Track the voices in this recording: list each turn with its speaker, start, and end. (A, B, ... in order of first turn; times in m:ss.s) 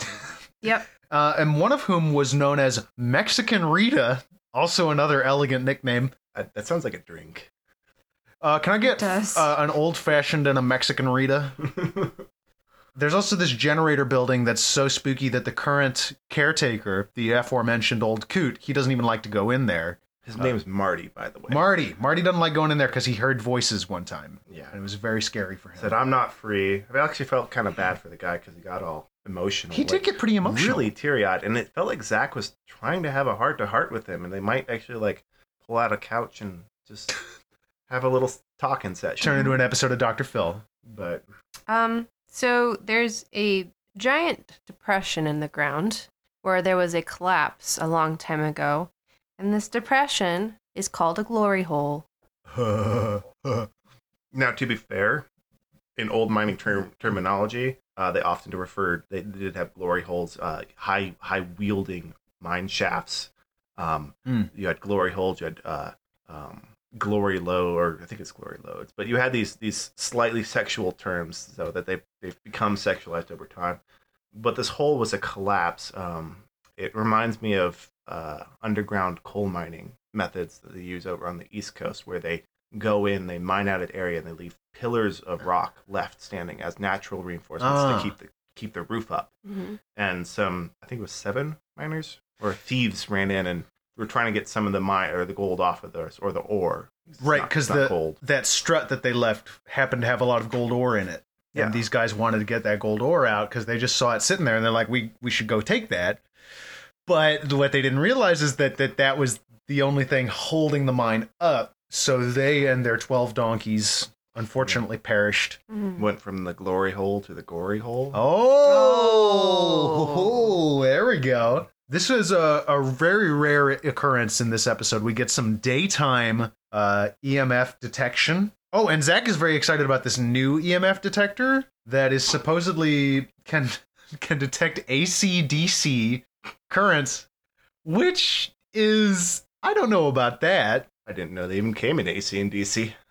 0:01.1-0:06.1 A
0:06.3-0:07.5 B
0:08.4-0:11.7 A
0:08.8-0:09.5 C
0:12.9-0:20.5 A
0:20.2-0:21.6 B
0:21.5-0:25.9 A
0:24.5-0:24.7 B
0:25.8-0:37.1 B
0:29.7-0:30.9 A
0:37.9-0:39.5 B
0:39.2-0:40.6 A
0:40.8-0:41.2 B
0:41.7-0:52.0 C
0:52.5-0:53.7 A
0:54.3-0:55.2 B
0:56.0-1:13.8 B
1:14.3-1:29.3 B
1:27.6-1:28.1 A
1:29.5-1:29.8 C
1:29.9-1:38.2 B
1:37.2-1:46.2 A
1:41.5-1:41.8 B
1:47.0-1:55.6 A
1:55.7-1:56.0 C
1:56.0-1:58.2 B
1:58.1-2:17.3 A
1:58.6-2:00.4 C
2:17.8-2:20.9 A
2:21.0-2:22.9 B